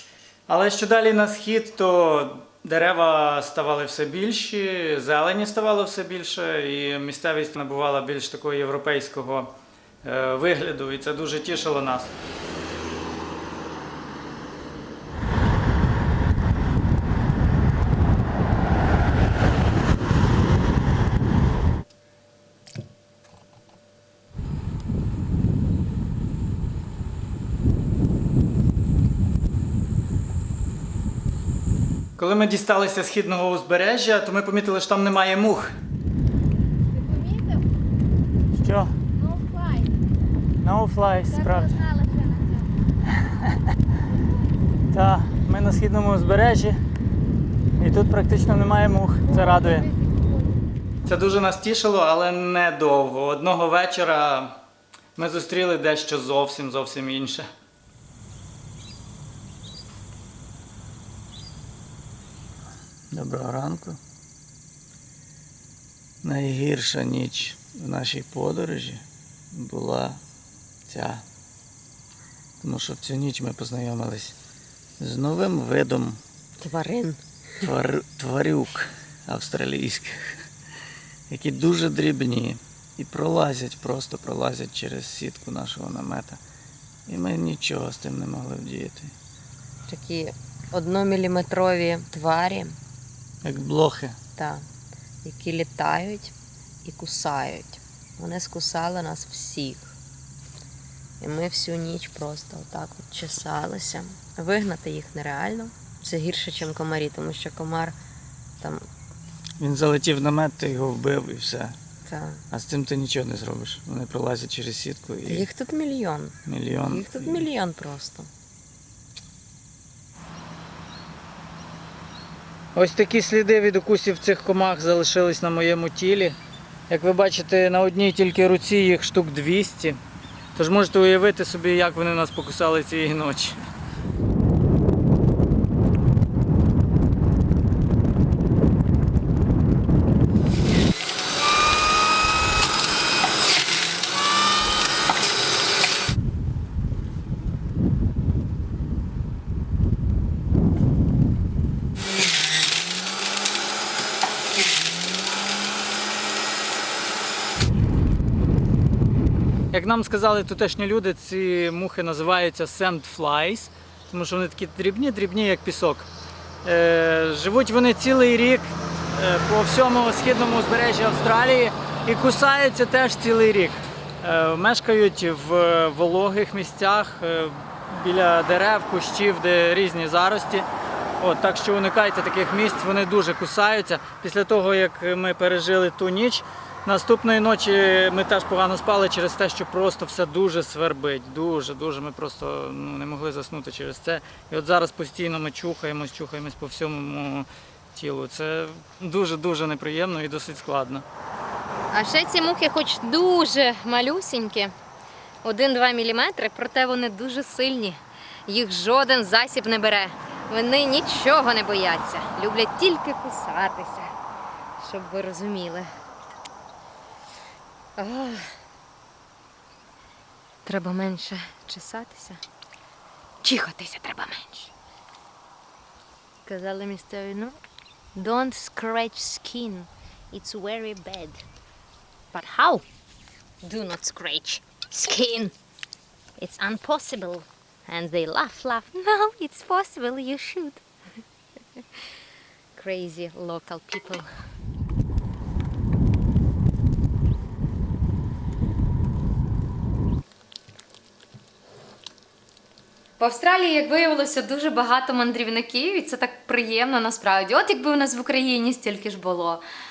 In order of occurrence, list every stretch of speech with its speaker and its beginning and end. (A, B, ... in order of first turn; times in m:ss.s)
0:00.5-0:09.5 A
0:10.0-0:12.1 A
0:32.2-0:35.8 A
0:38.6-0:39.0 A
0:40.6-0:42.0 A
0:44.9-0:46.8 A
0:47.8-0:49.9 A
0:51.0-0:54.6 A
0:55.2-0:57.5 A
1:03.1-1:04.0 A
1:06.2-1:10.2 A
1:10.9-1:11.2 A
1:12.6-1:14.4 A
1:15.0-1:16.2 A
1:16.6-1:17.2 B
1:17.6-1:20.4 A
1:21.3-1:26.4 A
1:27.1-1:29.2 A
1:29.9-1:32.8 B
1:33.4-1:34.2 A
1:34.4-1:34.6 B
1:35.2-1:36.3 B
1:36.8-1:39.9 B
1:41.2-1:48.0 B
1:48.6-1:48.9 B
1:49.6-1:51.8 A
1:52.1-1:52.4 B
1:52.5-1:55.5 A
1:55.2-1:58.3 B
1:56.5-1:57.5 A
2:02.8-2:06.4 A
2:06.9-2:10.0 A
2:10.6-2:13.6 A
2:39.7-2:46.1 A
2:46.6-3:00.7 A
3:01.2-3:21.0 A
3:21.9-3:24.7 C
3:25.4-3:34.1 C
3:34.8-3:35.9 C
3:38.0-3:38.6 C
3:40.6-3:42.4 C
3:43.4-3:44.7 C
3:46.4-3:47.6 C
3:48.2-3:51.4 C
3:52.3-3:52.8 C
3:53.6-3:55.5 C
3:56.4-4:00.8 C
4:02.8-4:04.3 C
4:13.2-4:19.6 C